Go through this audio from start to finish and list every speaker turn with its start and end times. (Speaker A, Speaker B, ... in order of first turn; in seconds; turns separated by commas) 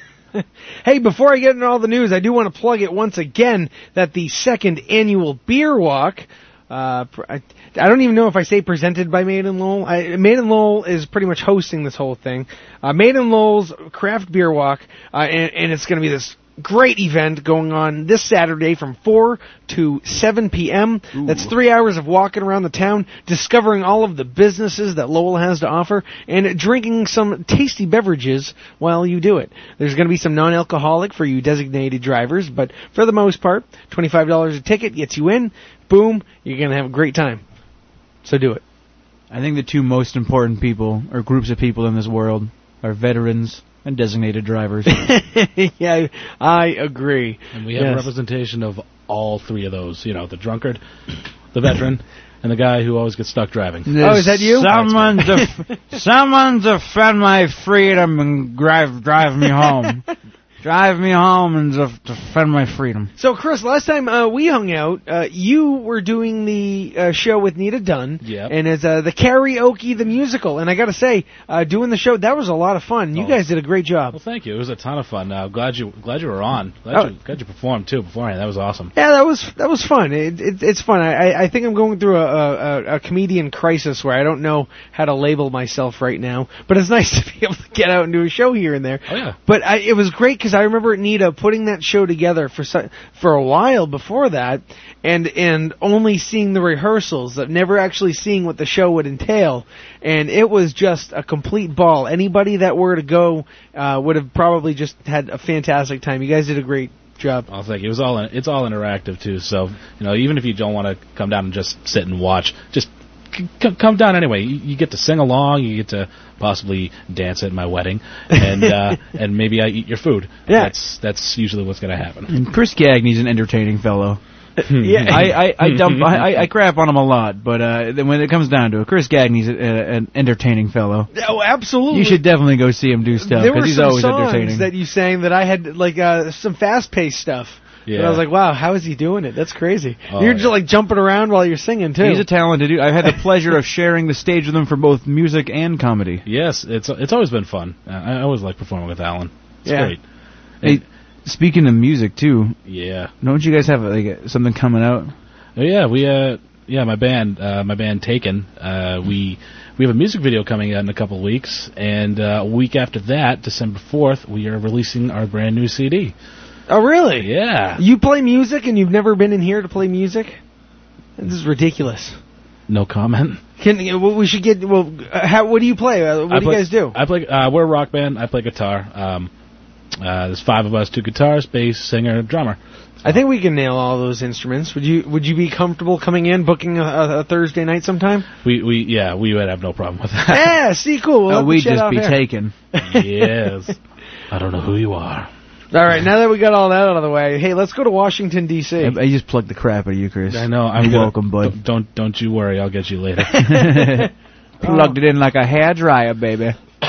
Speaker A: 0.3-37.4, Speaker B: 21.1-21.5, Speaker A: 38.2-38.6, Speaker B: 39.3-45.0, Speaker A: 44.9-48.1, Speaker C: 47.5-50.8, Speaker C: 51.5-55.2, Speaker B: 53.9-60.1, Speaker A: 54.0-55.5, Speaker B: 60.6-63.1, Speaker A: 63.2-74.2, Speaker C: 68.2-68.5, Speaker C: 73.1-73.4, Speaker C: 74.1-78.9, Speaker A: 79.0-107.5, Speaker C: 89.1-89.4, Speaker C: 107.5-122.3, Speaker A: 118.3-118.7, Speaker B: 122.3-124.2, Speaker C: 124.7-126.3, Speaker A: 124.8-125.4, Speaker B: 125.0-131.1, Speaker A: 131.1-132.2, Speaker B: 131.9-134.7, Speaker A: 133.2-142.3, Speaker C: 137.9-138.2, Speaker C: 140.1-140.6, Speaker B: 142.0-146.2, Speaker C: 146.3-150.0, Speaker A: 149.7-149.9, Speaker B: 150.6-152.6, Speaker C: 152.7-153.1, Speaker B: 153.2-155.1, Speaker C: 155.6-166.1, Speaker A: 166.7-170.4, Speaker C: 167.2-167.8, Speaker A: 171.2-172.2, Speaker C: 172.7-173.4, Speaker A: 173.6-177.0, Speaker C: 176.3-179.3, Speaker C: 180.0-183.2, Speaker A: 183.1-188.3, Speaker C: 188.4-190.5, Speaker A: 190.3-192.2, Speaker B: 191.3-192.5, Speaker A: 192.8-193.5, Speaker C: 192.8-193.8, Speaker C: 194.3-195.3, Speaker A: 195.7-199.0, Speaker B: 198.8-201.6, Speaker C: 200.3-203.4, Speaker B: 203.3-204.1, Speaker A: 204.6-205.0, Speaker B: 204.6-206.6